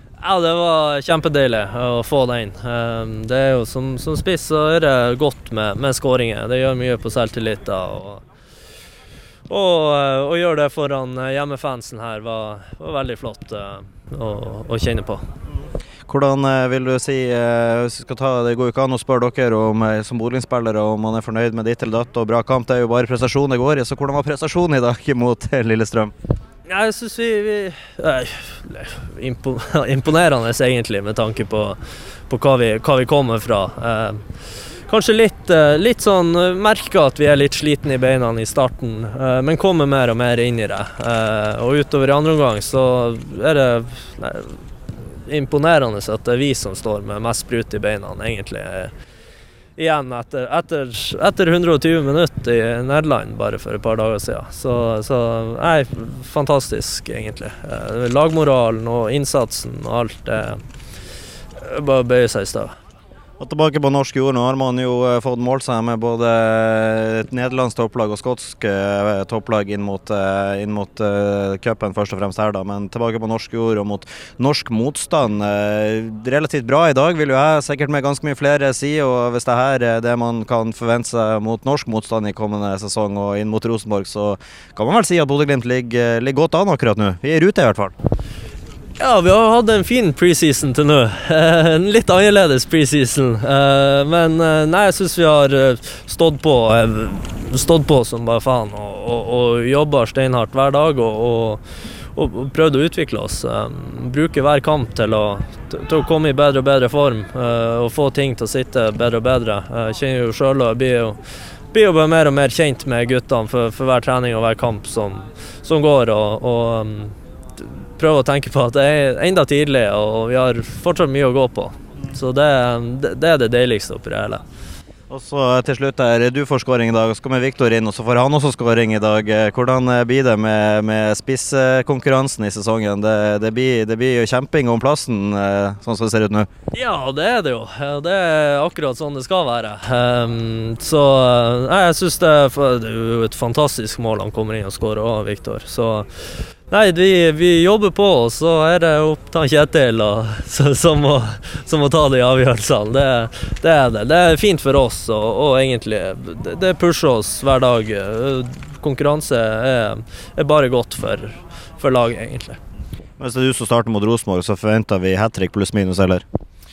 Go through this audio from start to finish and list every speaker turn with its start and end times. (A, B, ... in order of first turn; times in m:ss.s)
0:00.2-0:08.2 A
0:09.5-0:15.2 A
0:16.1-0:26.1 B
0:26.7-0:31.8 A
0:32.3-0:34.2 A
0:34.9-0:48.9 A
0:49.8-1:00.6 A
1:01.6-1:02.7 A
1:03.4-1:27.9 B
1:29.0-1:41.6 A
1:42.1-1:51.2 A
1:51.7-2:04.4 A
2:05.1-2:16.5 B
2:16.7-2:42.6 A
2:43.2-2:46.2 B